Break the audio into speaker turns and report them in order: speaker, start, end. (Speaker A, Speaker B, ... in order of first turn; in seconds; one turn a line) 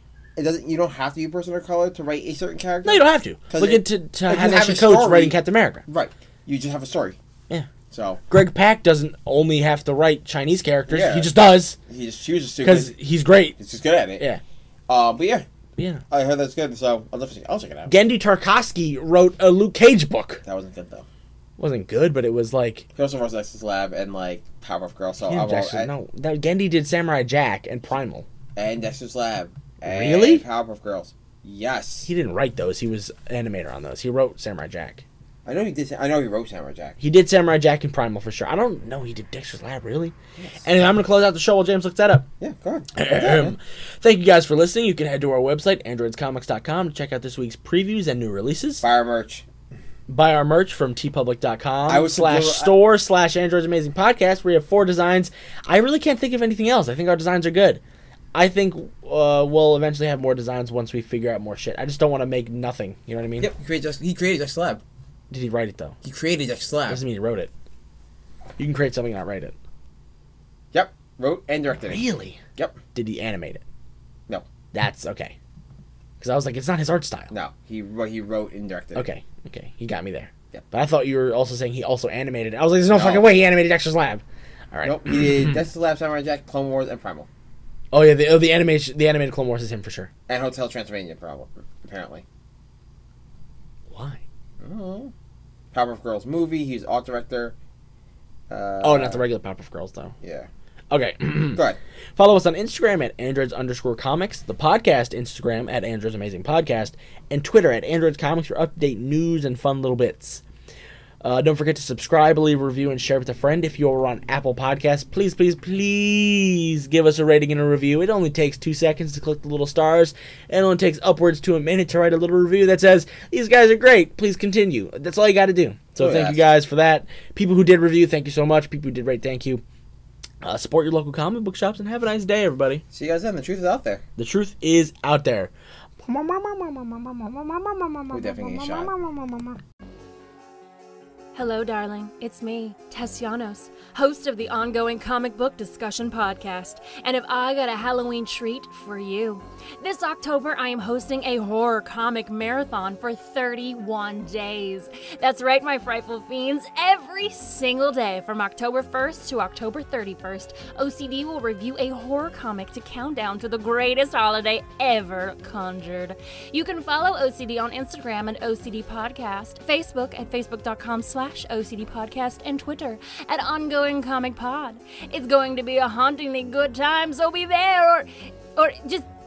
Speaker A: 0.4-7.2
Speaker B: 2.9-5.8
Speaker A: 7.9-8.2
Speaker B: 8.3-11.8
Speaker A: 10.9-11.3
Speaker A: 11.9-12.9
Speaker B: 12.6-13.6
Speaker A: 13.6-14.2
Speaker A: 14.9-15.5
Speaker B: 15.8-16.0
Speaker A: 16.1-17.9
Speaker B: 17.9-20.4
Speaker A: 20.4-21.1
Speaker B: 21.6-22.9
Speaker A: 23.0-25.9
Speaker B: 25.2-28.3
Speaker A: 28.6-32.1
Speaker B: 29.8-30.4
Speaker B: 32.1-35.0
Speaker A: 35.5-37.0
Speaker B: 37.0-42.3
Speaker A: 42.4-43.6
Speaker B: 43.0-48.8
Speaker A: 48.8-49.5
Speaker B: 50.1-57.8
Speaker A: 51.9-52.7
Speaker B: 58.3-63.5
Speaker A: 63.4-64.8
Speaker B: 65.3-66.0
Speaker A: 66.0-67.0
Speaker B: 66.9-67.5
Speaker B: 68.6-69.5
Speaker A: 70.7-72.0
Speaker B: 71.9-72.4
Speaker B: 72.9-73.6
Speaker B: 74.7-75.3
Speaker B: 76.2-77.3
Speaker A: 77.3-79.1
Speaker B: 79.0-85.6
Speaker A: 82.9-83.3
Speaker A: 84.8-87.3
Speaker B: 87.9-90.1
Speaker A: 90.3-92.2
Speaker B: 93.9-94.2
Speaker A: 94.6-95.1
Speaker A: 95.7-97.6
Speaker A: 98.5-99.2
Speaker B: 98.8-100.2
Speaker A: 100.2-100.5
Speaker B: 100.9-101.6
Speaker B: 102.2-110.4
Speaker B: 111.2-129.6
Speaker A: 126.0-126.4
Speaker B: 130.4-132.8
Speaker A: 132.9-134.0
Speaker B: 134.2-139.6
Speaker A: 138.1-138.9
Speaker C: 141.3-179.1